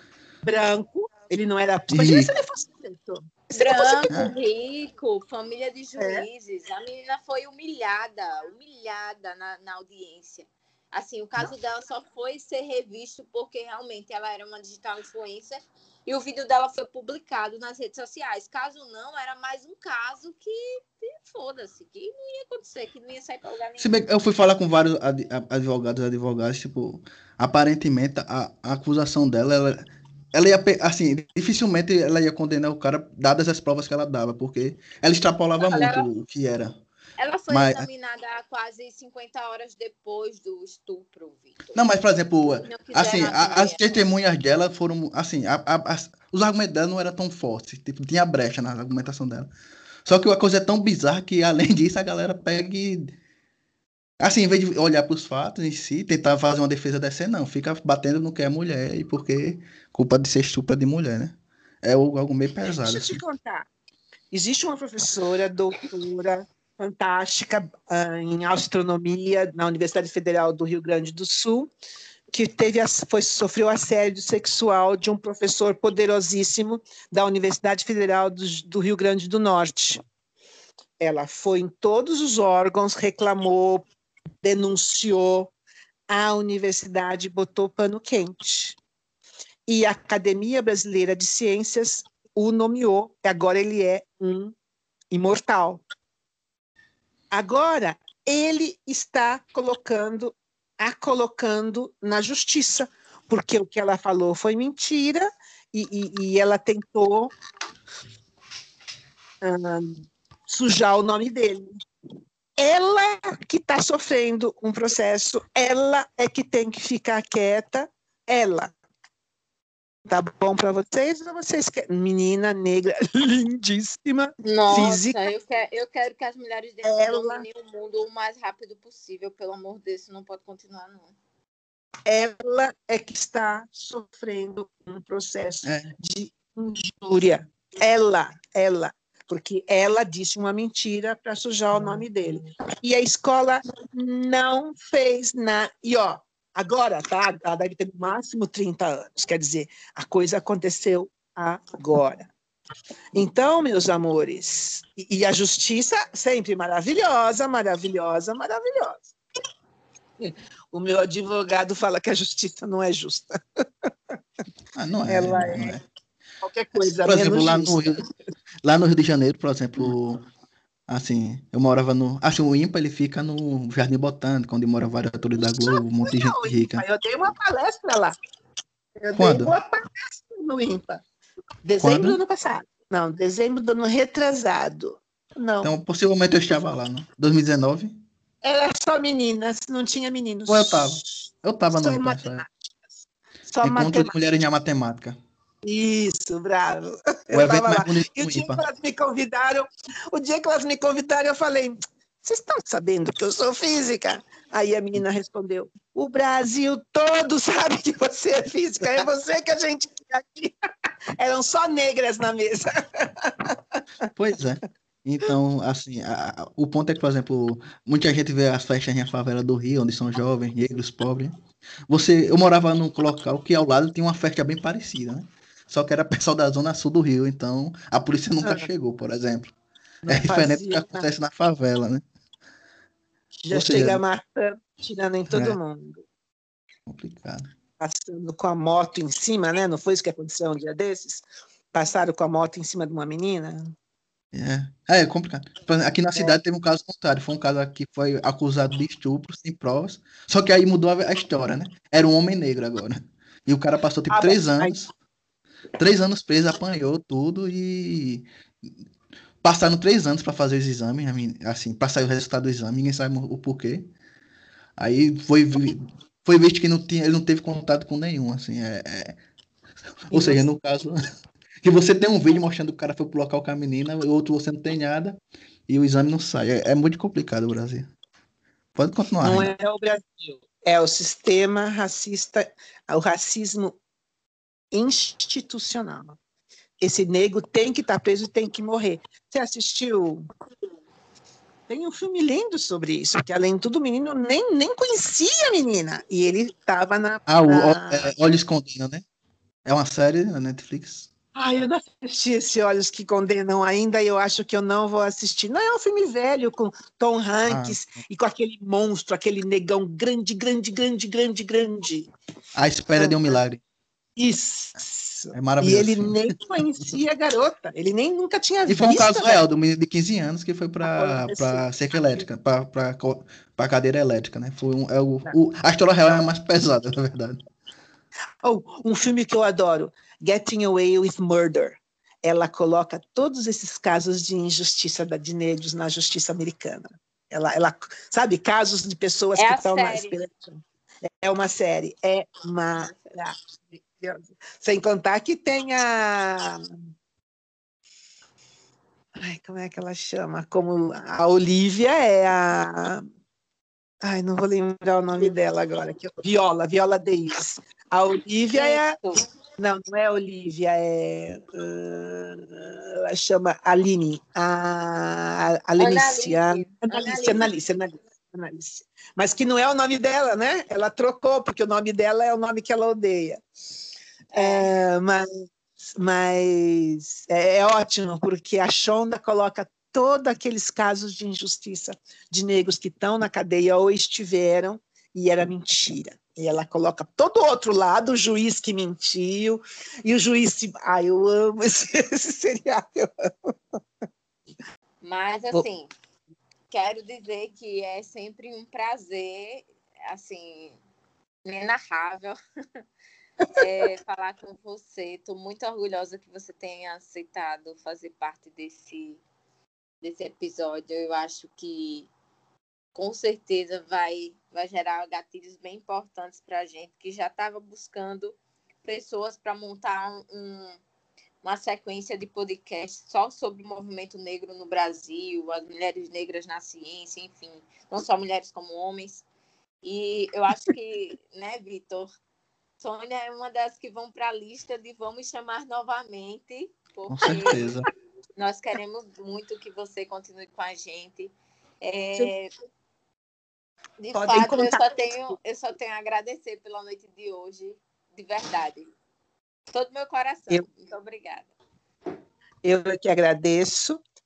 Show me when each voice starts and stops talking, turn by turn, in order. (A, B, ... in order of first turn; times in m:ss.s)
0:00.4-0:04.1 A
0:01.9-0:02.3 B
0:03.6-0:24.0 C
0:06.0-0:06.3 A
0:23.8-0:36.8 B
0:35.6-0:36.0 C
0:37.2-0:41.8 C
0:37.5-0:37.9 B
0:41.7-0:49.5 B
0:42.6-0:44.0 C
0:50.0-0:53.1 B
0:54.2-1:03.2 B
1:02.8-1:03.7 A
1:04.3-1:11.7 A
1:12.3-1:20.0 A
1:21.0-1:23.9 A
1:24.4-1:25.5 A
1:26.1-1:28.8 A
1:29.7-1:34.5 A
1:35.1-1:35.8 A
1:37.3-1:47.3 A
1:49.4-1:51.7 A
1:52.6-1:58.7 A
2:00.1-2:05.2 A
2:04.4-2:11.1 C
2:06.8-2:07.4 A
2:12.1-2:32.3 A
2:15.6-2:15.9 B
2:33.1-2:39.1 A
2:40.2-2:43.4 A
2:44.8-2:45.8 B
2:45.1-2:45.8 A
2:46.4-2:48.0 A
2:47.0-2:48.0 B
2:48.6-2:50.2 B
2:50.9-2:56.8 B
2:55.6-2:58.1 A
2:59.0-3:01.0 A
2:59.2-2:59.5 B
3:01.6-3:05.7 A
3:01.8-3:02.2 B
3:05.6-3:08.0 B
3:08.4-3:11.0 A
3:10.5-3:12.4 B
3:11.7-3:12.5 A
3:13.5-3:14.1 A
3:13.6-3:15.2 B
3:15.6-3:30.5 A
3:17.3-3:18.6 B
3:31.2-3:33.8 A
3:34.2-3:41.3 B
3:41.9-3:49.5 B
3:48.4-3:48.7 A
3:50.0-3:51.1 A
3:50.1-3:52.0 B
3:53.4-3:56.0 A
3:53.5-3:54.0 B
3:55.3-3:55.6 B
3:56.9-3:57.5 B
3:57.8-4:03.7 A
4:04.3-4:14.9 B
4:14.1-4:14.8 A
4:15.8-4:18.7 B
4:19.4-4:23.8 B
4:24.8-4:29.2 B
4:30.1-4:31.0 B
4:30.1-4:30.4 A
4:31.6-4:35.2 B
4:35.7-4:37.9 B
4:38.8-4:39.5 B
4:39.2-4:43.8 A
4:44.7-4:46.2 A
4:46.8-4:50.3 A
4:51.7-4:58.1 A
4:57.3-4:59.0 B
4:59.6-5:01.1 B
5:01.3-5:12.1 A
5:07.5-5:07.8 B
5:12.6-5:13.6 B
5:14.2-5:19.4 A
5:15.3-5:16.2 B
5:18.7-5:27.4 B
5:20.8-5:22.3 A
5:28.4-5:40.6 A
5:39.3-5:40.1 C
5:41.2-5:46.8 A
5:49.2-5:53.0 A
5:54.0-5:59.0 A
5:58.5-5:59.2 C
5:59.6-6:13.4 A
6:05.8-6:07.5 C
6:14.3-6:15.2 A
6:14.3-6:14.7 C
6:16.0-6:33.5 A
6:35.0-6:35.9 C
6:36.7-6:40.8 C
6:41.4-6:42.8 C
6:43.4-6:43.9 A
6:43.6-6:49.2 C
6:50.0-6:52.1 C
6:53.0-7:00.8 C
7:01.4-7:09.2 C
7:09.8-7:12.1 C
7:12.8-7:17.6 C
7:17.1-7:17.9 B
7:18.4-7:22.5 C
7:24.0-7:28.9 C
7:24.1-7:24.9 A
7:29.7-7:31.5 C
7:32.6-7:34.0 A